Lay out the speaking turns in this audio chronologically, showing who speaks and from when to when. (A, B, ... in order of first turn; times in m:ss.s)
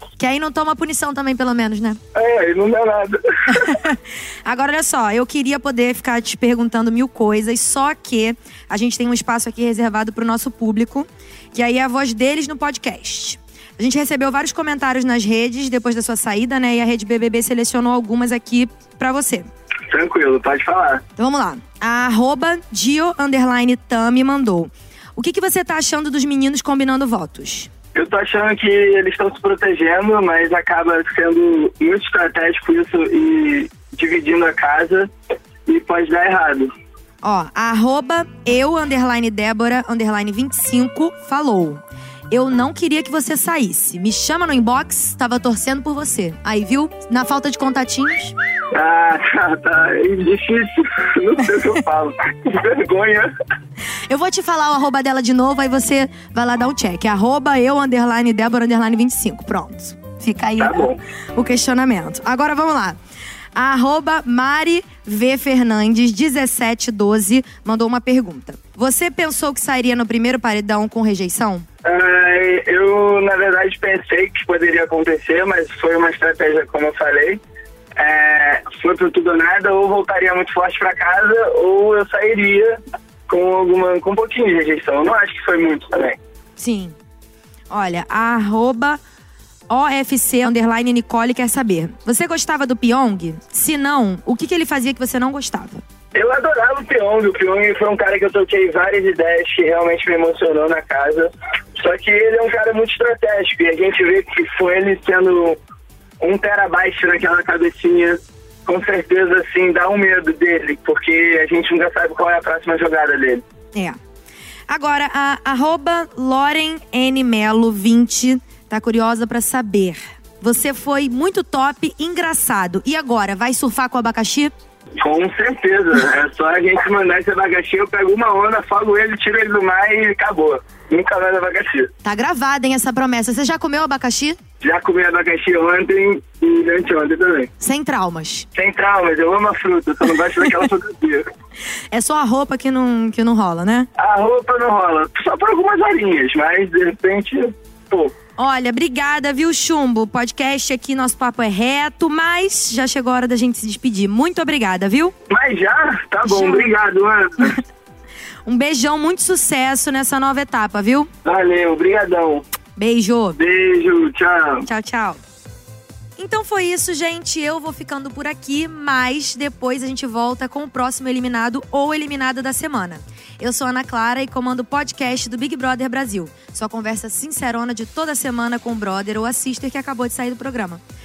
0:00.2-0:02.0 A
0:02.1-0:03.7 B
0:03.6-0:19.5 A
0:19.9-0:21.0 B
0:21.2-0:27.7 A
0:27.9-0:35.1 B
0:35.6-0:36.7 B
0:37.2-0:48.3 A
0:48.7-0:53.3 B
0:54.1-1:03.0 A
1:00.6-1:01.0 B
1:03.5-1:11.6 A
1:11.8-1:17.4 B
1:18.0-1:26.2 B
1:26.6-1:26.9 A
1:27.7-1:29.0 A
1:29.7-1:35.8 A
1:36.1-1:45.6 B
1:46.2-1:53.4 B
1:54.7-2:04.5 A
2:05.0-2:11.9 B
2:12.0-2:14.4 A
2:14.6-2:17.5 B
2:17.6-2:18.5 A
2:18.5-2:21.3 B
2:21.9-2:23.9 A
2:24.0-2:28.1 B
2:28.4-2:35.1 A
2:35.3-2:37.6 B
2:36.3-2:36.7 A
2:38.4-2:41.1 A
2:41.2-2:42.4 B
2:42.8-2:43.4 A
2:43.4-2:44.7 B
2:44.6-2:45.2 A
2:46.2-3:00.8 A